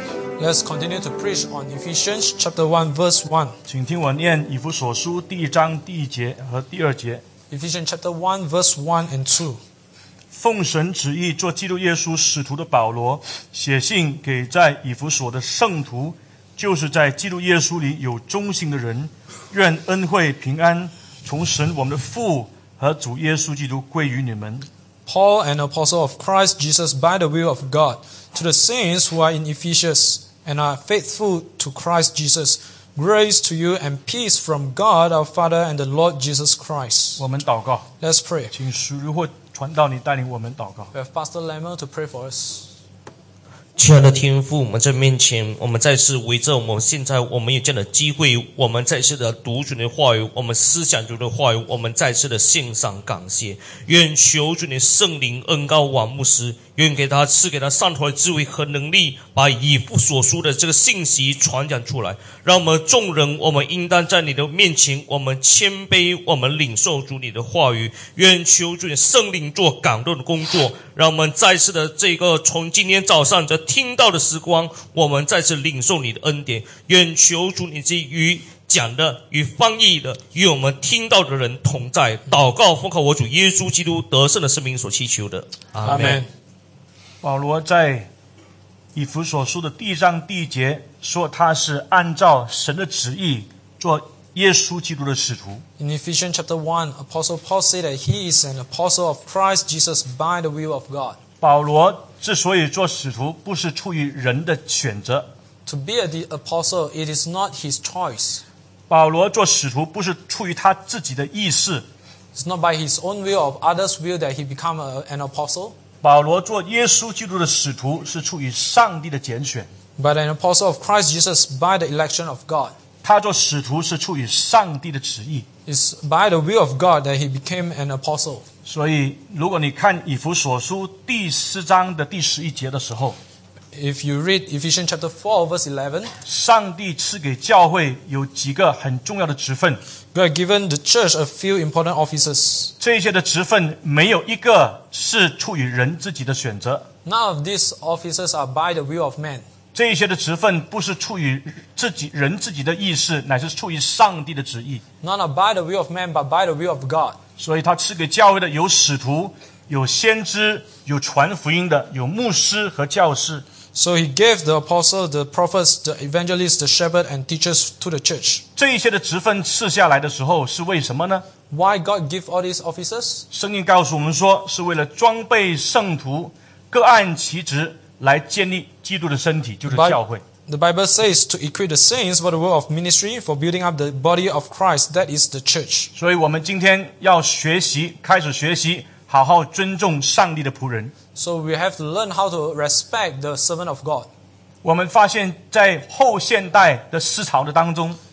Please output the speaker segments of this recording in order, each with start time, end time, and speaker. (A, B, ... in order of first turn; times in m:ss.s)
0:00.4-0:03.6 A
0:03.7-0:07.2 B
0:07.5-0:09.6 A
0:10.3-0:24.7 B
0:25.0-0:37.2 A
0:37.2-0:37.9 B
0:38.0-0:38.5 A
0:38.5-0:40.9 B
0:40.9-0:42.7 A
0:43.8-1:26.2 C
1:25.8-1:26.3 A
1:27.2-1:28.1 B
1:28.9-1:35.6 B
1:35.8-1:41.2 A
1:41.4-1:45.3 B
1:45.6-1:48.4 A
1:48.9-1:51.8 B
1:52.3-1:55.8 A
1:56.0-1:59.7 B
2:00.0-2:02.7 A
2:03.0-2:05.4 B
2:05.6-2:08.4 A
2:08.6-2:13.2 B
2:13.7-2:16.1 A
2:16.2-2:19.8 B
2:20.1-2:22.7 A
2:22.8-2:26.9 B
2:27.0-2:29.4 A
2:29.7-2:34.8 B
2:35.0-2:37.2 A
2:37.4-2:43.4 B
2:43.7-2:48.4 A
2:48.6-2:51.2 B
2:51.5-2:53.2 A
2:53.3-3:00.2 B
2:59.7-3:05.9 A
3:06.0-3:10.9 B
3:11.1-3:14.1 A
3:14.6-3:18.0 B